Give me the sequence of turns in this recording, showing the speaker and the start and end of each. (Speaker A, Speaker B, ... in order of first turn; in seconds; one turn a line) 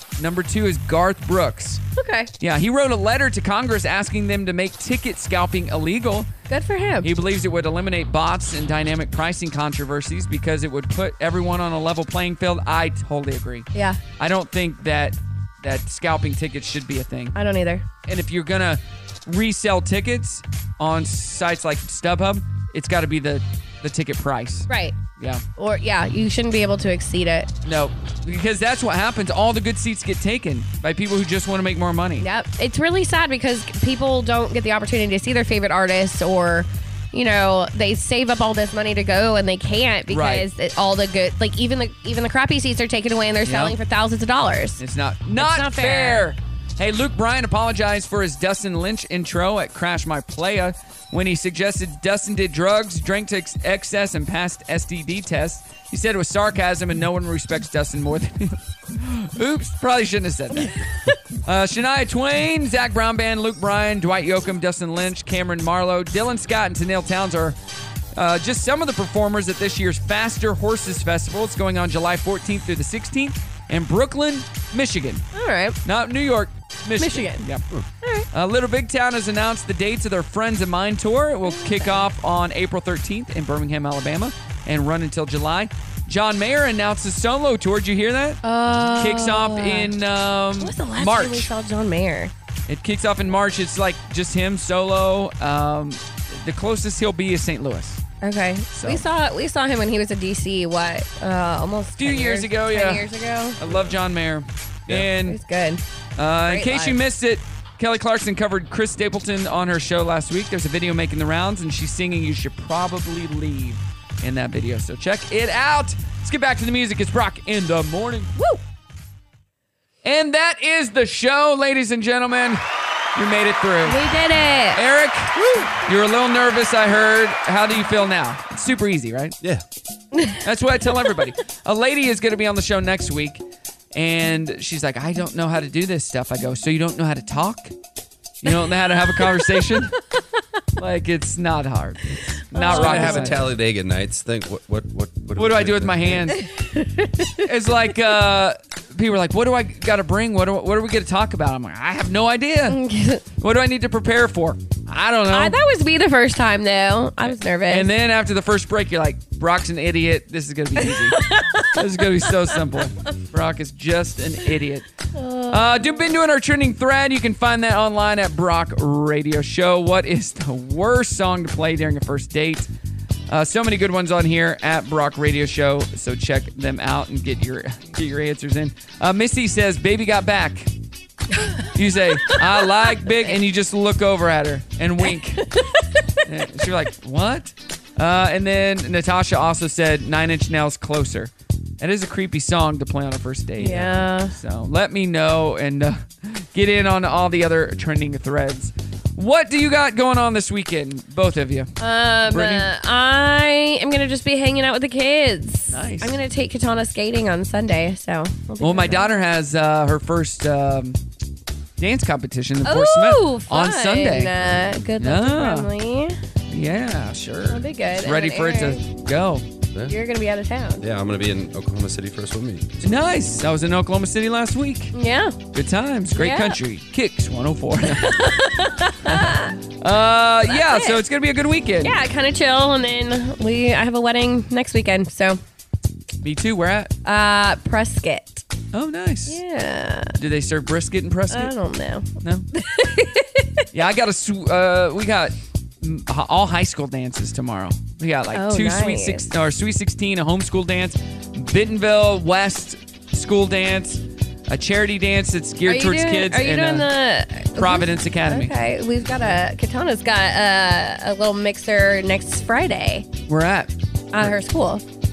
Speaker A: 0.2-1.8
Speaker B: 2.0-2.3
Speaker A: 2.4-6.3
Speaker B: 6.5-7.1
Speaker A: 7.0-17.4
Speaker B: 13.7-14.0
Speaker B: 17.4-17.8
Speaker A: 18.1-25.4
Speaker B: 24.7-25.0
Speaker B: 25.6-27.5
Speaker A: 27.6-32.3
Speaker B: 32.2-44.8
Speaker A: 40.1-40.5
Speaker A: 43.4-43.8
Speaker A: 44.8-60.7
Speaker B: 45.4-46.3
Speaker B: 60.6-61.1
Speaker A: 61.4-67.6
Speaker A: 68.2-75.2
Speaker B: 75.3-75.8
Speaker A: 75.8-77.6
Speaker B: 77.0-77.4
Speaker B: 78.0-78.3
Speaker A: 78.3-88.4
Speaker B: 81.4-82.1
Speaker B: 88.4-89.9
Speaker A: 88.9-91.5
Speaker B: 90.6-92.3
Speaker A: 92.7-98.0
Speaker B: 98.2-103.6
Speaker A: 98.7-99.0
Speaker A: 102.0-103.0
Speaker A: 103.6-105.4
Speaker B: 105.2-105.8
Speaker A: 106.2-118.5
Speaker B: 106.4-107.0
Speaker A: 120.0-122.6
Speaker A: 123.1-124.0
Speaker B: 123.8-124.8
Speaker A: 124.7-129.3
Speaker A: 130.4-133.4
Speaker A: 133.9-137.7
Speaker A: 138.4-139.9
Speaker A: 140.8-143.5
Speaker B: 142.5-143.4
Speaker C: 142.6-146.3
Speaker A: 145.3-146.4
Speaker B: 146.6-147.4
Speaker A: 147.4-152.8
Speaker B: 152.7-153.2
Speaker A: 153.4-155.6
Speaker B: 155.3-157.9
Speaker A: 157.2-161.2
Speaker B: 160.8-162.6
Speaker A: 161.7-164.9
Speaker B: 165.1-165.9
Speaker A: 165.5-172.7
Speaker A: 173.3-180.7
Speaker A: 181.7-185.5
Speaker B: 185.0-185.7
Speaker A: 186.2-201.7
Speaker B: 193.6-194.3
Speaker B: 201.8-209.2
Speaker A: 202.3-202.7
Speaker A: 205.7-206.1
Speaker A: 208.6-211.0
Speaker A: 211.8-214.5
Speaker B: 212.6-216.2
Speaker A: 215.0-215.7
Speaker A: 216.5-219.4
Speaker B: 217.5-218.8
Speaker B: 219.9-220.8
Speaker C: 220.8-222.9
Speaker A: 222.8-224.9
Speaker B: 224.9-225.4
Speaker A: 225.5-228.3
Speaker B: 226.1-226.6
Speaker B: 227.8-229.5
Speaker A: 229.0-231.9
Speaker B: 230.5-231.0
Speaker B: 231.8-235.4
Speaker A: 236.2-236.9
Speaker B: 237.0-238.4
Speaker A: 238.7-239.4
Speaker B: 239.3-240.1
Speaker A: 240.2-241.5
Speaker B: 241.3-243.6
Speaker A: 242.2-242.5
Speaker A: 243.7-256.9
Speaker B: 248.3-249.2
Speaker B: 255.7-263.1
Speaker A: 257.6-258.5
Speaker A: 263.3-264.3
Speaker B: 264.1-264.8